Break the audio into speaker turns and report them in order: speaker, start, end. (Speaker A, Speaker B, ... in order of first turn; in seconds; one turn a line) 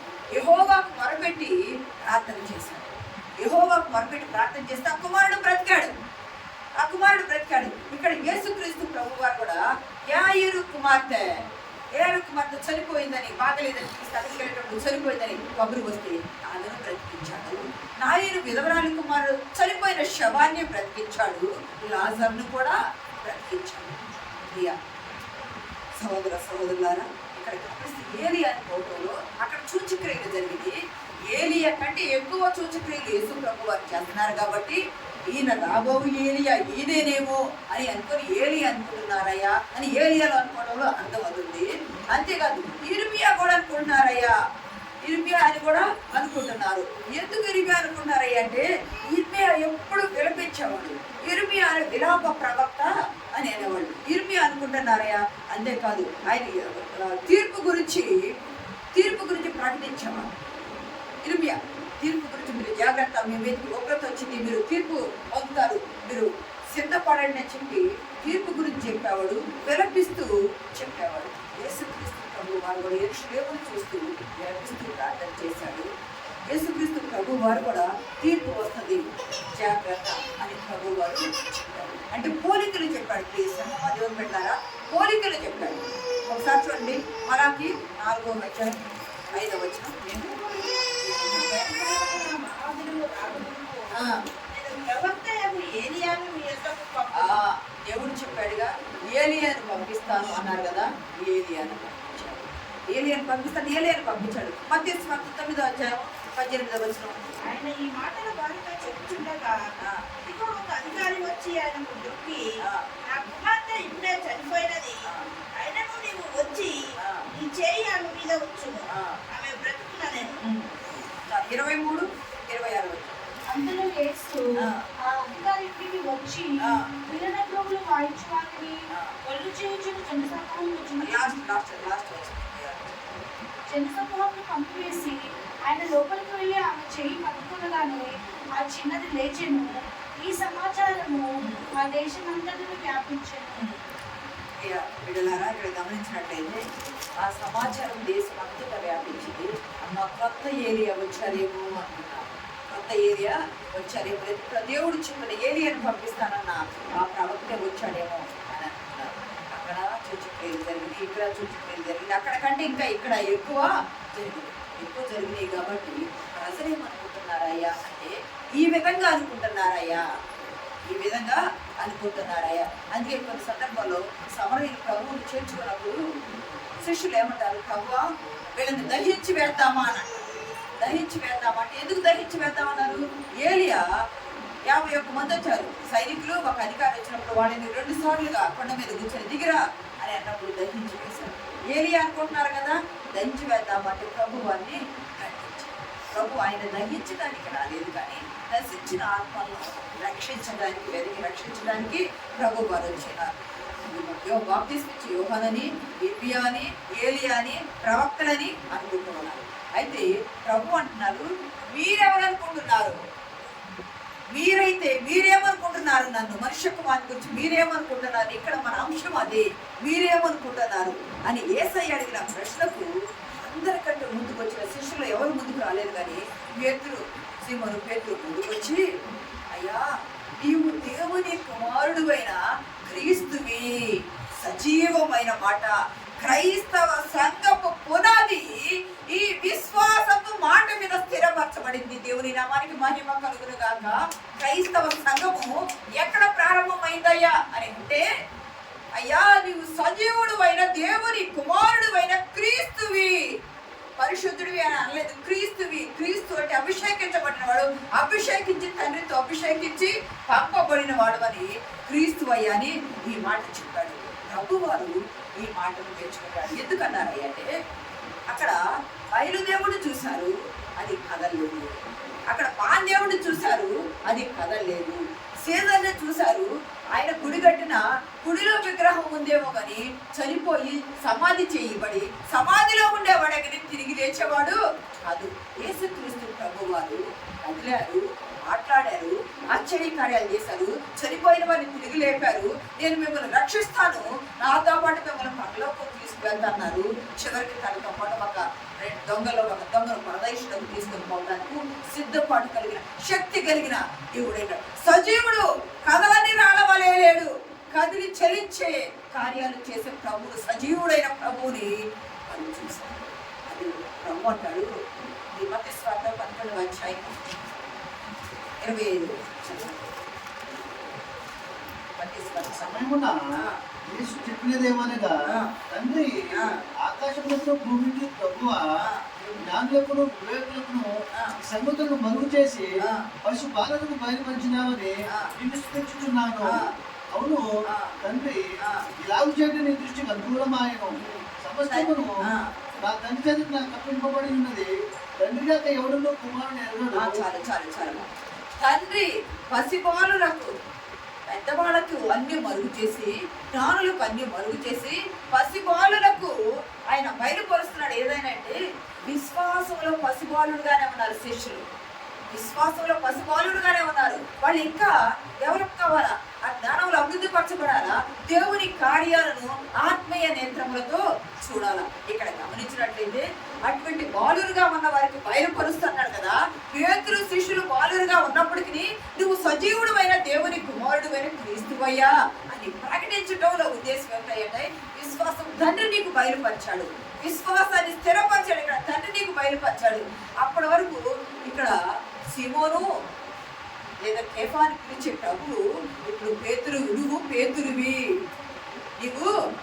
Speaker A: 0.3-5.9
Speaker A: 6.8-11.3
Speaker A: 11.9-24.8
Speaker A: 26.0-30.8
Speaker A: 31.3-44.3
Speaker A: 45.0-58.3
Speaker A: 58.9-60.3
Speaker A: 61.2-75.9
Speaker A: 76.5-90.0
Speaker B: 90.0-93.9
Speaker A: 93.9-94.2
Speaker B: 94.5-97.4
Speaker A: 97.2-107.2
Speaker B: 107.5-109.5
Speaker A: 109.8-110.0
Speaker B: 110.2-112.5
Speaker A: 112.6-112.9
Speaker B: 113.1-115.0
Speaker B: 115.5-116.8
Speaker A: 117.0-117.3
Speaker B: 117.3-120.3
Speaker A: 118.9-119.2
Speaker A: 120.4-123.2
Speaker C: 123.5-131.4
Speaker A: 124.6-124.8
Speaker A: 126.6-126.9
Speaker A: 128.9-129.1
Speaker A: 131.0-132.9
Speaker C: 133.7-143.6
Speaker A: 141.4-141.7
Speaker A: 143.6-143.8
Speaker A: 144.6-146.6
Speaker A: 147.2-170.0
Speaker A: 170.9-176.0
Speaker A: 176.8-183.8
Speaker A: 184.7-212.9
Speaker A: 214.3-228.8
Speaker A: 229.5-229.8
Speaker A: 230.4-248.1
Speaker A: 248.9-253.3
Speaker A: 254.0-267.5
Speaker A: 268.3-268.6
Speaker A: 269.1-271.8
Speaker A: 272.3-311.7
Speaker A: 312.3-314.7
Speaker A: 315.3-317.1
Speaker A: 318.6-320.0
Speaker A: 322.0-323.6
Speaker D: 322.5-323.2
Speaker D: 323.9-325.1
Speaker A: 325.3-325.5
Speaker D: 325.7-326.1
Speaker A: 326.3-326.6
Speaker D: 326.8-328.6
Speaker A: 328.8-329.3
Speaker D: 329.4-330.9
Speaker D: 331.4-332.7
Speaker A: 332.8-333.1
Speaker D: 333.2-336.6
Speaker A: 335.1-335.3
Speaker A: 336.5-336.7
Speaker D: 337.1-337.4
Speaker A: 337.7-338.0
Speaker D: 338.0-338.4
Speaker A: 338.6-338.9
Speaker D: 339.0-342.2
Speaker A: 341.7-342.5
Speaker D: 342.8-344.7
Speaker D: 345.2-347.2
Speaker A: 346.9-348.1
Speaker A: 348.6-350.5
Speaker A: 351.3-356.4
Speaker A: 356.9-361.6
Speaker A: 362.3-391.7
Speaker A: 392.3-392.9
Speaker A: 394.0-397.9
Speaker A: 399.0-399.3